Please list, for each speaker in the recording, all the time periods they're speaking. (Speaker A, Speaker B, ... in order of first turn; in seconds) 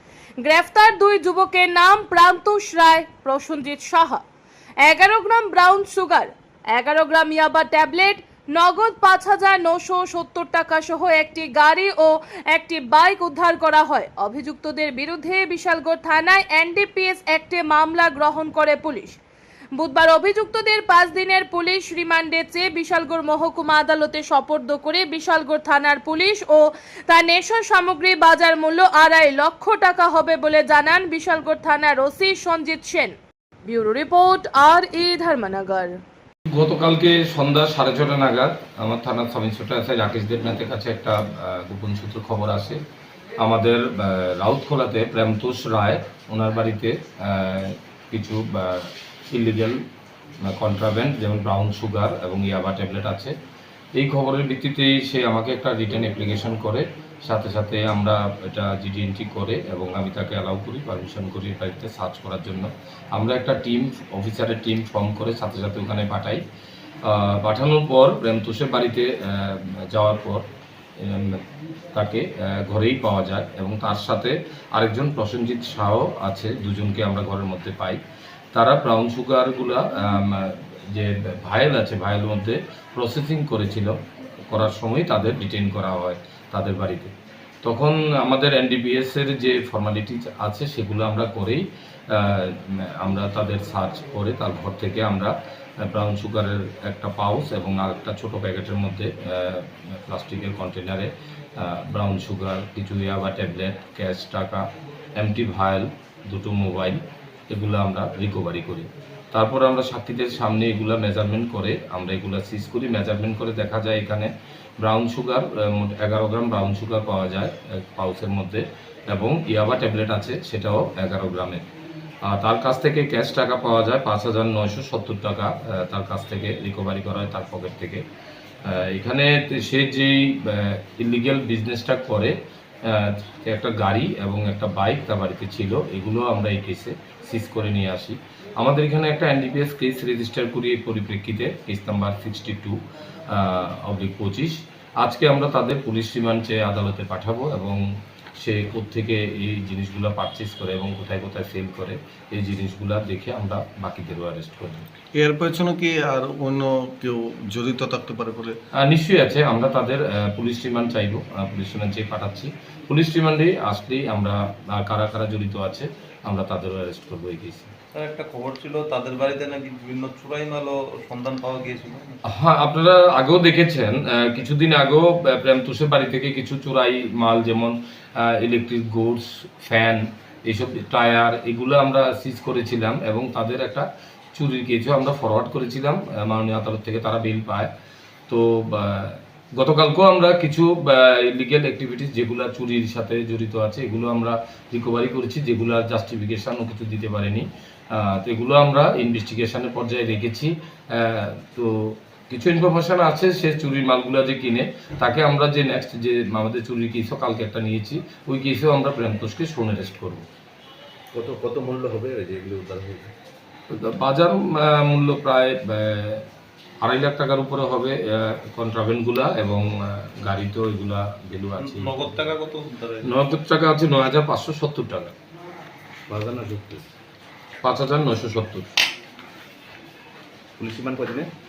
Speaker A: 0.4-4.2, 4.8-19.2, 19.7-35.9
Speaker B: 36.5-42.8, 43.4-49.8, 50.4-53.3, 54.0-66.4, 67.0-70.4, 71.0-71.4, 71.9-78.0, 78.5-84.0, 84.5-87.1, 87.6-95.3, 95.8-104.6, 105.2-121.6, 122.2-128.0, 128.7-132.3, 132.8-142.8, 143.3-147.8, 148.4-154.8, 158.8-167.7, 172.3-187.7, 188.3-210.2, 213.7-216.2, 216.8-222.2, 223.1-225.1, 227.6-228.7
Speaker C: 155.2-158.5
Speaker D: 167.9-172.2, 221.6-223.1
Speaker E: 211.1-213.1, 226.1-226.9, 230.6-231.3